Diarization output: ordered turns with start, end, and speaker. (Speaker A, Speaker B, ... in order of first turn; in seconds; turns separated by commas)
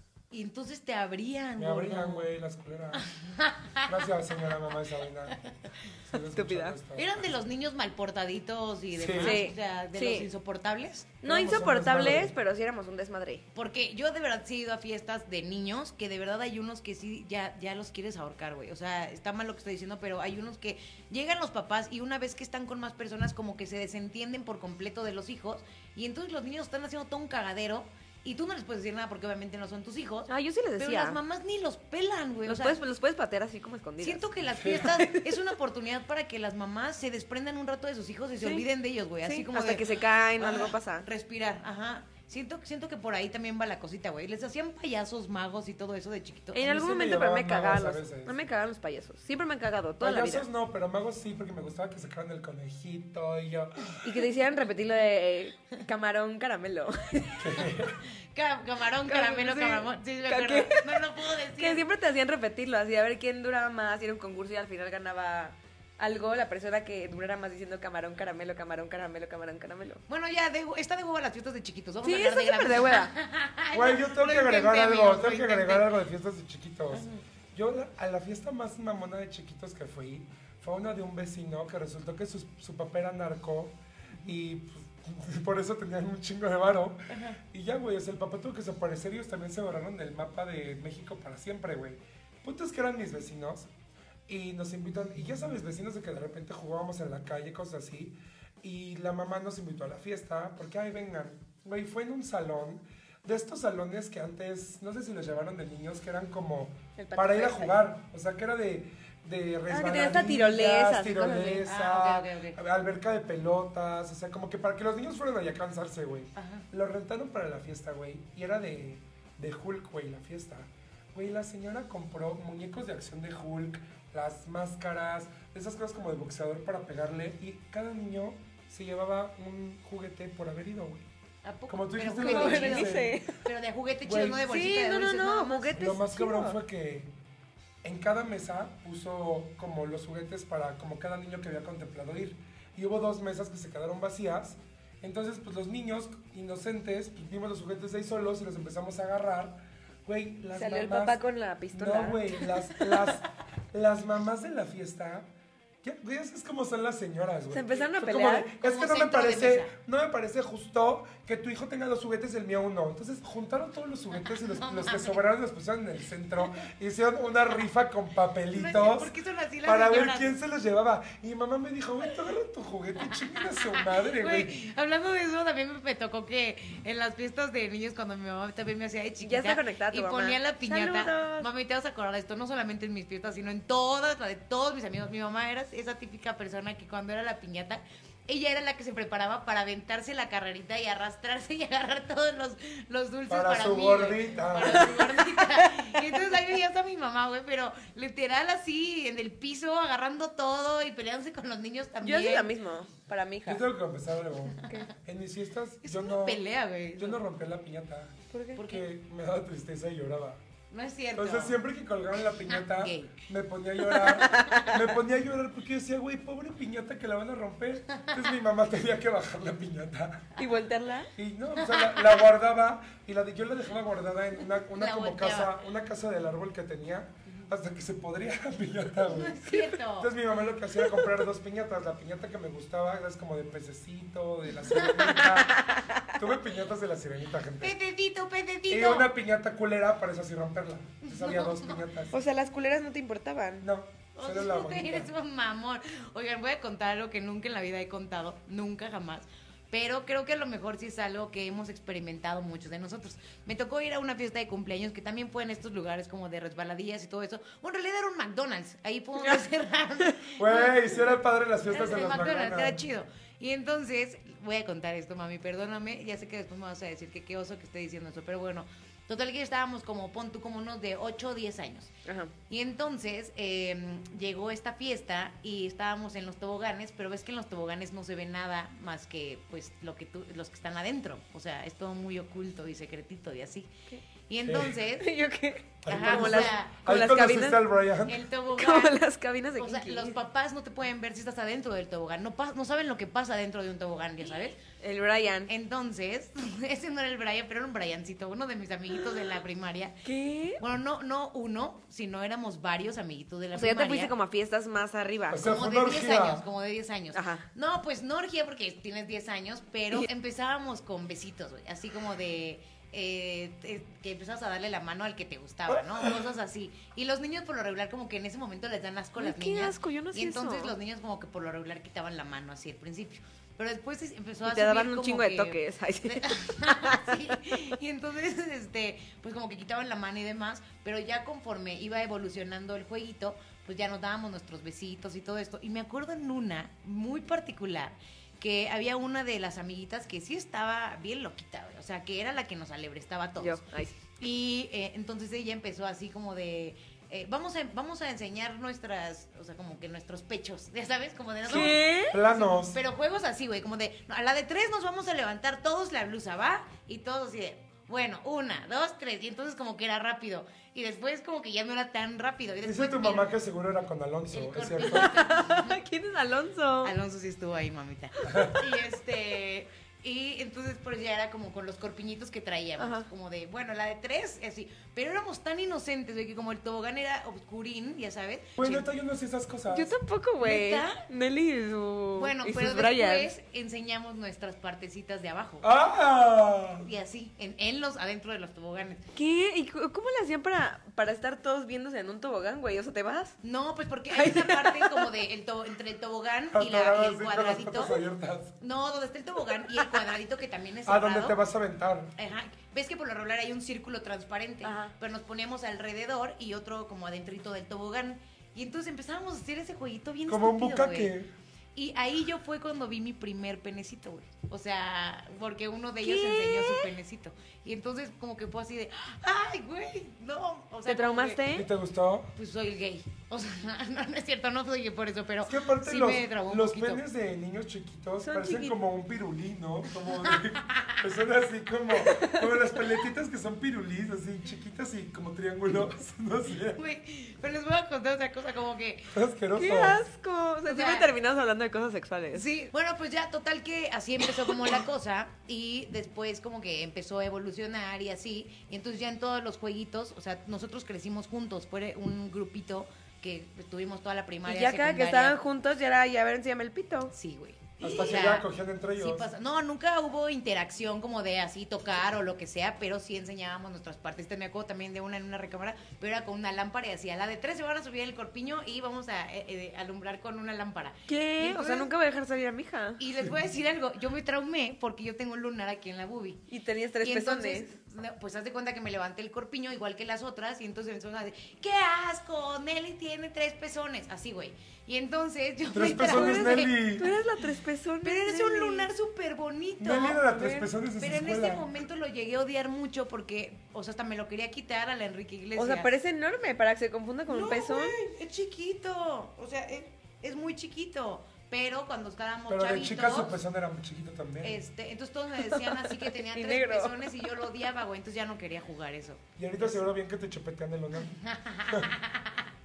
Speaker A: 0.3-2.3, Speaker B: 1.6-3.1, Speaker A: 3.0-3.9, Speaker B: 3.8-5.4, Speaker B: 6.0-7.3, Speaker C: 6.3-6.8, Speaker A: 7.0-11.2, Speaker B: 8.9-9.4, Speaker C: 9.2-10.3, Speaker C: 11.2-13.4, Speaker B: 11.2-12.3, Speaker A: 13.6-32.8, Speaker C: 30.3-31.2, Speaker C: 32.5-35.5, Speaker A: 34.0-46.6, Speaker B: 34.6-35.0, Speaker C: 38.4-38.7, Speaker C: 39.2-41.1, Speaker C: 46.5-50.5, Speaker B: 46.6-48.5, Speaker B: 50.0-54.0, Speaker C: 54.0-57.6, Speaker B: 57.4-58.0, Speaker A: 58.3-61.9, Speaker C: 59.1-70.0, Speaker A: 70.1-75.9, Speaker C: 72.0-73.1, Speaker B: 73.7-93.7, Speaker A: 87.1-87.4, Speaker B: 94.3-131.1, Speaker C: 107.0-107.8, Speaker C: 109.7-111.7, Speaker A: 111.6-112.6, Speaker A: 116.4-116.7, Speaker A: 131.4-135.7, Speaker B: 131.7-133.2, Speaker C: 132.2-133.4, Speaker B: 134.0-134.4, Speaker C: 134.3-136.6, Speaker B: 135.7-137.1, Speaker B: 137.8-151.2, Speaker C: 150.6-153.1, Speaker B: 151.7-155.3, Speaker B: 155.8-169.1, Speaker C: 157.5-158.5, Speaker A: 158.6-159.7, Speaker A: 164.2-165.2, Speaker A: 168.5-170.4, Speaker B: 169.6-174.5, Speaker A: 173.3-202.5, Speaker C: 179.2-181.5, Speaker B: 193.3-195.1, Speaker C: 194.8-195.8, Speaker C: 202.0-203.6, Speaker B: 203.5-206.4, Speaker A: 205.8-207.2, Speaker B: 207.0-210.4, Speaker C: 208.3-208.6, Speaker A: 208.6-208.8, Speaker A: 210.7-211.6, Speaker B: 211.2-220.4, Speaker A: 212.5-213.2, Speaker C: 213.9-214.9, Speaker C: 220.4-221.1, Speaker B: 221.2-237.8, Speaker A: 221.6-222.1, Speaker A: 224.7-225.6, Speaker A: 229.1-230.1, Speaker C: 230.8-231.2, Speaker C: 235.0-236.1, Speaker A: 237.6-239.1, Speaker B: 238.7-242.2, Speaker A: 241.1-241.8, Speaker C: 242.1-243.7, Speaker B: 243.6-245.1, Speaker A: 244.2-260.7, Speaker B: 260.4-262.8, Speaker A: 261.7-271.9, Speaker C: 272.1-272.3, Speaker A: 272.5-283.7, Speaker A: 284.3-285.1, Speaker B: 284.4-284.8, Speaker C: 285.0-287.6, Speaker B: 285.8-288.2, Speaker A: 285.9-286.9, Speaker A: 288.1-289.0, Speaker C: 288.6-290.2, Speaker A: 289.6-294.6, Speaker C: 294.7-295.5, Speaker A: 295.5-300.0, Speaker C: 300.1-300.6, Speaker A: 300.6-304.1, Speaker C: 303.6-305.5, Speaker B: 305.3-306.4, Speaker A: 305.4-343.6, Speaker C: 307.1-307.5, Speaker B: 315.7-316.2, Speaker C: 319.2-320.8, Speaker C: 324.4-327.6, Speaker C: 343.4-343.9, Speaker A: 344.1-363.3, Speaker B: 351.4-352.8, Speaker C: 351.5-352.2, Speaker B: 362.6-365.1, Speaker A: 364.3-365.8, Speaker C: 364.8-366.9, Speaker A: 366.8-378.9, Speaker B: 368.3-368.6, Speaker C: 372.8-373.1, Speaker B: 378.6-379.9, Speaker C: 379.7-383.3, Speaker A: 380.4-381.0, Speaker A: 382.2-385.7, Speaker B: 385.6-386.9, Speaker A: 386.8-389.0, Speaker C: 389.1-393.4, Speaker A: 393.4-398.0, Speaker C: 394.1-395.1, Speaker B: 396.5-398.6, Speaker A: 398.6-401.4, Speaker B: 400.9-402.1, Speaker A: 402.2-411.1, Speaker C: 404.6-404.9, Speaker B: 410.3-411.3, Speaker A: 411.8-421.4, Speaker C: 416.0-416.9, Speaker C: 420.9-421.7, Speaker B: 421.5-422.3, Speaker A: 422.4-427.0, Speaker B: 425.5-436.8, Speaker C: 428.2-428.8, Speaker A: 430.3-431.0, Speaker C: 432.1-432.6, Speaker A: 436.8-439.1, Speaker B: 439.1-440.1, Speaker C: 439.6-442.4, Speaker A: 440.7-441.1, Speaker A: 442.3-455.4, Speaker C: 454.5-457.1, Speaker A: 457.1-471.9, Speaker B: 457.8-459.3, Speaker C: 471.1-473.0, Speaker A: 473.0-476.4, Speaker C: 476.5-477.7, Speaker A: 477.0-486.8, Speaker B: 485.7-487.2, Speaker C: 485.9-488.9, Speaker A: 488.0-490.2, Speaker B: 489.8-491.7, Speaker C: 490.2-490.7, Speaker A: 491.0-495.9, Speaker C: 495.6-497.9, Speaker A: 497.3-503.4, Speaker B: 502.5-504.6, Speaker A: 504.4-509.8, Speaker C: 505.4-507.0, Speaker B: 509.4-511.1, Speaker A: 511.1-512.5